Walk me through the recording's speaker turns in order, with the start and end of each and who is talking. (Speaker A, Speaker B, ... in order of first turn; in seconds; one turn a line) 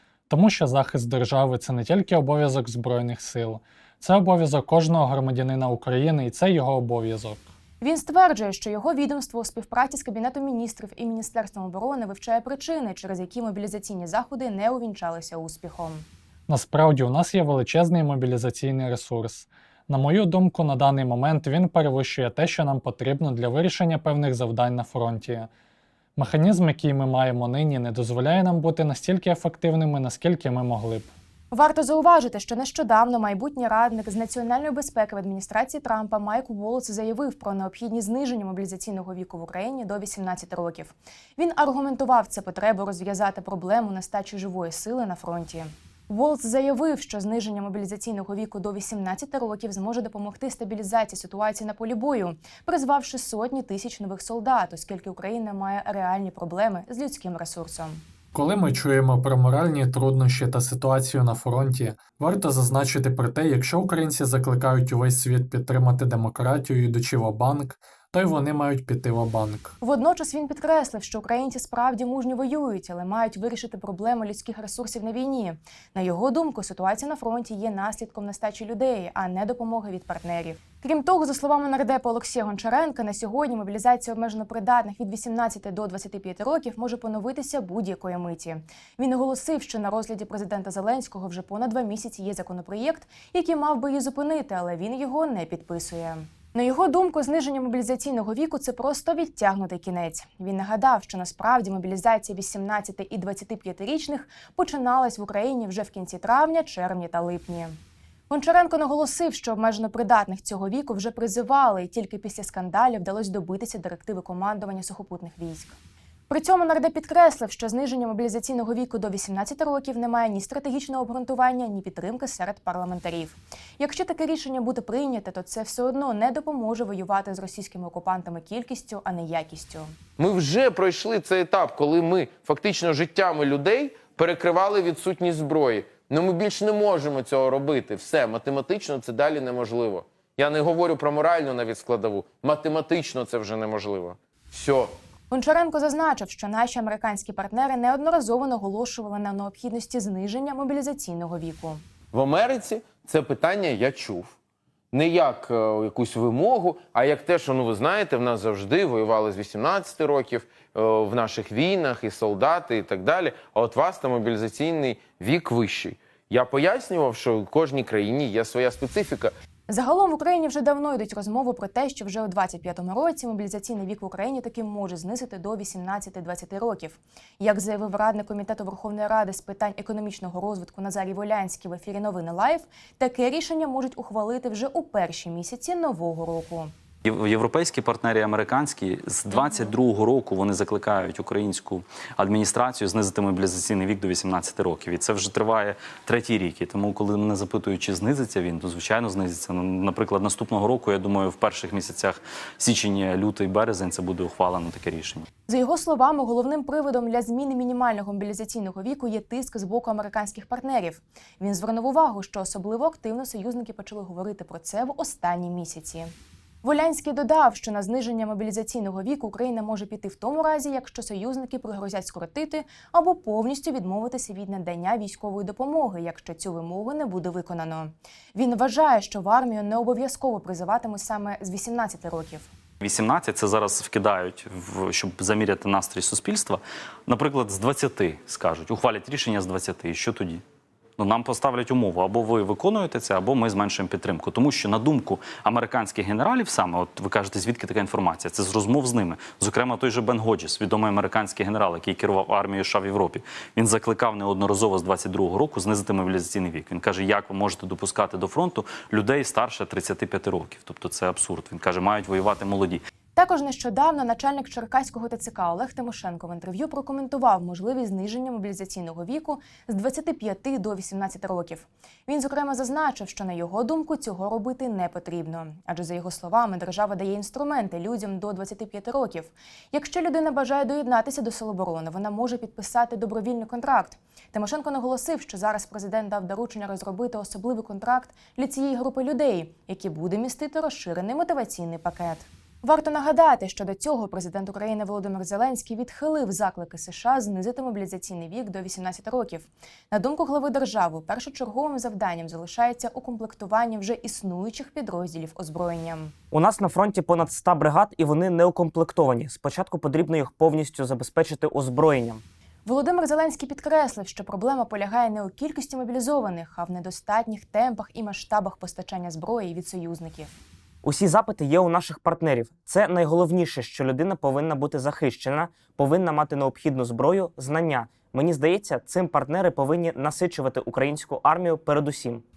Speaker A: 0.3-7.5
Speaker B: 7.8-16.1
Speaker A: 16.5-25.5
Speaker A: 26.2-31.1
Speaker B: 31.5-58.0
Speaker A: 58.3-69.7
Speaker B: 69.8-107.8
Speaker B: 108.3-115.8
Speaker B: 116.3-129.9
Speaker C: 130.2-144.9
Speaker B: 145.3-151.8
Speaker C: 152.1-154.3
Speaker C: 154.9-169.3
Speaker B: 169.7-186.7
Speaker D: 187.0-205.2
Speaker B: 205.5-232.5
Speaker D: 232.8-240.4
Speaker D: 241.0-262.8
Speaker B: 263.1-306.1
Speaker E: 306.3-312.2
Speaker B: 312.6-320.4
Speaker E: 320.8-332.2